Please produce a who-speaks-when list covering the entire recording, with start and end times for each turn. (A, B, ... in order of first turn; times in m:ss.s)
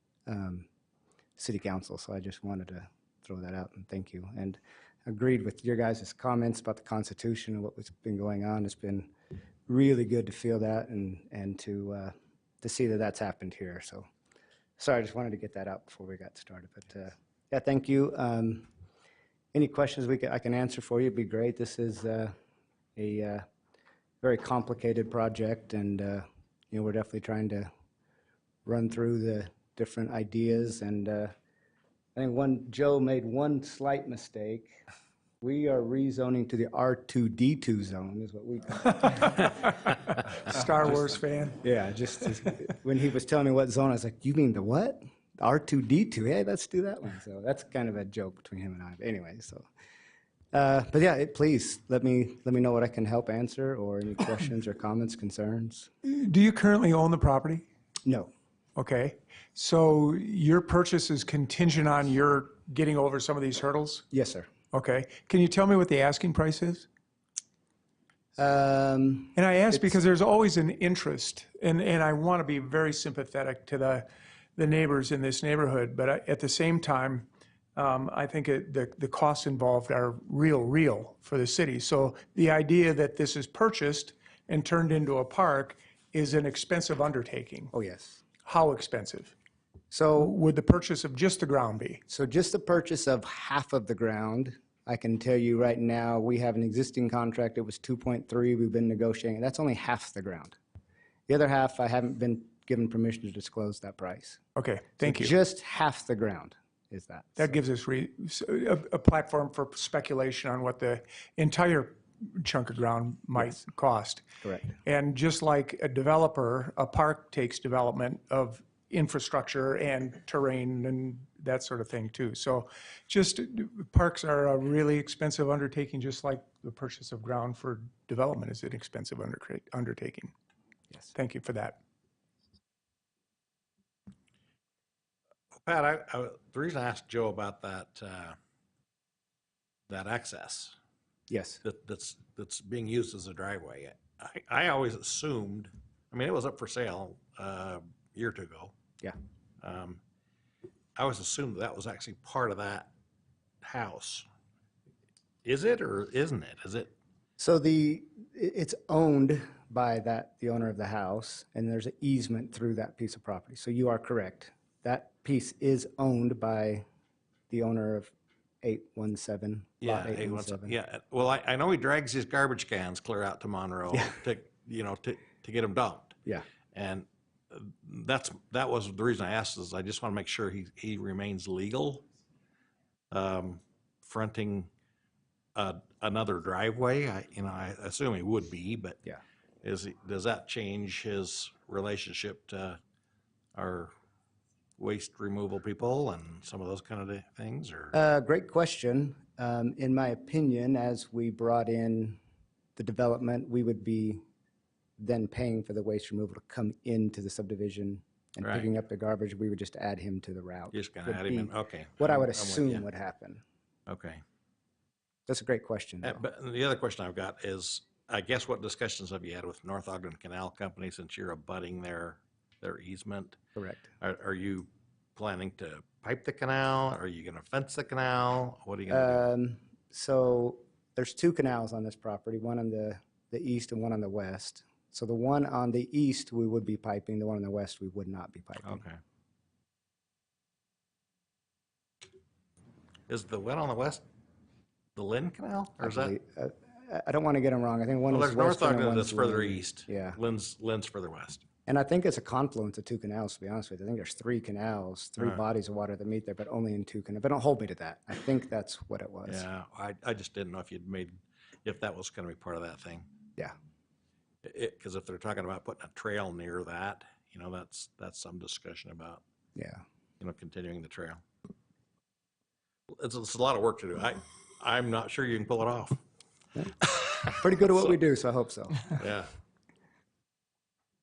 0:00.3-0:00.7 A
0:01.4-0:09.1 A
0:09.7-0:14.1 A
0:14.8-0:18.7 A
0:19.5-0:22.3 A
0:23.0-0:23.4 A
0:24.2-0:27.7 A
0:28.7-0:31.3 A
0:32.2-0:34.8 A
0:35.4-0:39.6 A
0:39.0-0:39.5 B
0:40.3-0:41.6 B
0:41.6-0:49.7 A
0:50.5-0:55.9 A
0:56.0-0:57.7 B
0:58.0-0:58.3 A
0:58.8-1:04.1 B
1:04.1-1:04.5 A
1:04.7-1:06.9 B
1:08.4-1:10.0 A
1:09.4-1:27.7 B
1:27.7-1:28.2 A
1:28.4-1:29.3 B
1:29.9-1:30.3 A
1:30.2-1:32.0 B
1:32.1-1:40.6 A
1:41.3-1:44.4 A
1:44.6-1:45.3 B
1:45.0-1:47.5 A
1:47.4-1:54.2 B
1:54.4-1:54.7 A
1:54.8-2:10.3 B
2:11.1-2:11.8 B
2:15.6-2:18.4 C
2:19.9-2:20.8 C
2:21.3-2:21.6 A
2:21.6-2:28.7 C
2:29.6-2:30.0 C
2:31.0-2:32.9 C
2:33.6-2:34.3 C
2:35.4-2:36.9 C
2:37.4-2:46.8 A
2:47.5-2:48.1 A
2:48.6-2:50.8 A
2:49.8-2:56.2 C
2:56.7-3:02.1 C
3:03.1-3:04.7 C
3:05.6-3:09.0 C
3:09.6-3:12.8 C
3:13.6-3:13.9 C
3:14.8-3:18.0 C
3:17.9-3:22.2 A
3:22.8-3:24.2 A
3:25.0-3:33.4 A
3:28.4-3:28.7 C
3:30.7-3:32.8 C
3:33.9-3:34.2 C
3:35.3-3:36.2 A
3:36.0-3:43.4 C
3:43.6-3:43.9 A
3:44.0-3:49.2 C
3:48.9-3:58.8 A
3:58.6-3:59.0 C
4:03.1-4:04.0 C
4:05.0-4:06.2 C
4:05.8-4:10.2 A
4:08.1-4:11.4 C
4:11.7-4:19.4 A
4:19.3-4:23.1 C
4:24.4-4:29.2 C
4:29.6-4:29.8 A
4:30.2-4:31.2 C
4:32.9-4:36.0 C
4:36.6-4:39.0 A
4:36.8-4:37.3 C
4:39.0-4:39.3 C